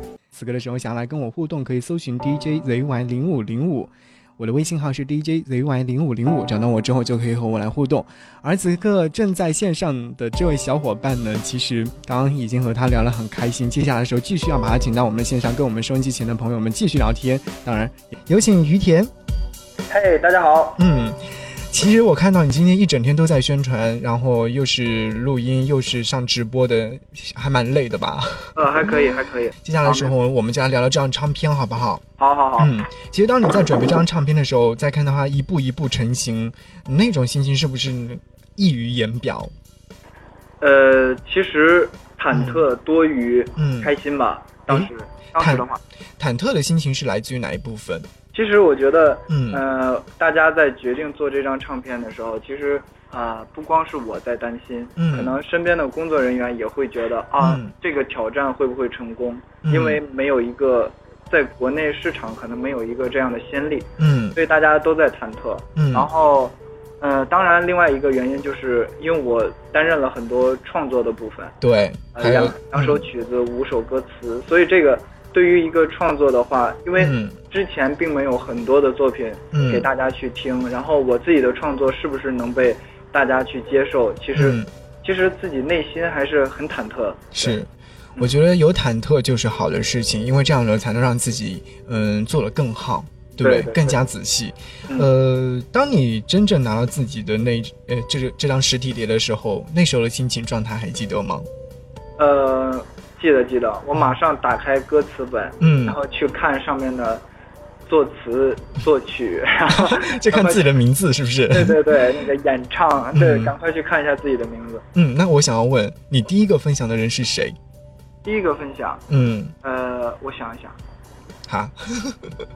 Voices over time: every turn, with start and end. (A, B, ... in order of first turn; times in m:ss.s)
0:00.3-0:19.1 A
0:19.9-0:20.8 B
0:20.8-0:32.0 A
0:28.6-0:30.1 B
0:32.2-0:32.7 B
0:32.6-0:39.5 A
0:40.6-0:45.8 B
0:42.3-0:42.6 A
0:43.6-0:43.9 A
0:44.7-0:45.6 A
0:46.2-0:48.1 A
0:48.3-1:11.6 B
0:49.3-0:49.6 A
0:55.0-0:55.4 A
0:57.4-0:57.7 A
0:59.6-1:00.0 A
1:04.0-1:04.4 A
1:05.8-1:06.1 A
1:11.6-1:13.0 A
1:12.1-1:27.6 B
1:17.0-1:17.4 A
1:19.5-1:19.9 A
1:24.3-1:24.7 A
1:27.3-1:41.5 A
1:33.4-1:34.0 B
1:42.2-1:47.2 B
1:45.6-1:46.0 A
1:47.9-1:50.6 B
1:49.7-1:52.0 A
1:51.5-1:54.8 B
1:53.1-1:53.5 A
1:54.9-1:57.6 A
1:58.2-1:59.0 B
1:59.1-1:59.5 A
1:59.6-2:00.8 B
2:01.5-2:02.3 A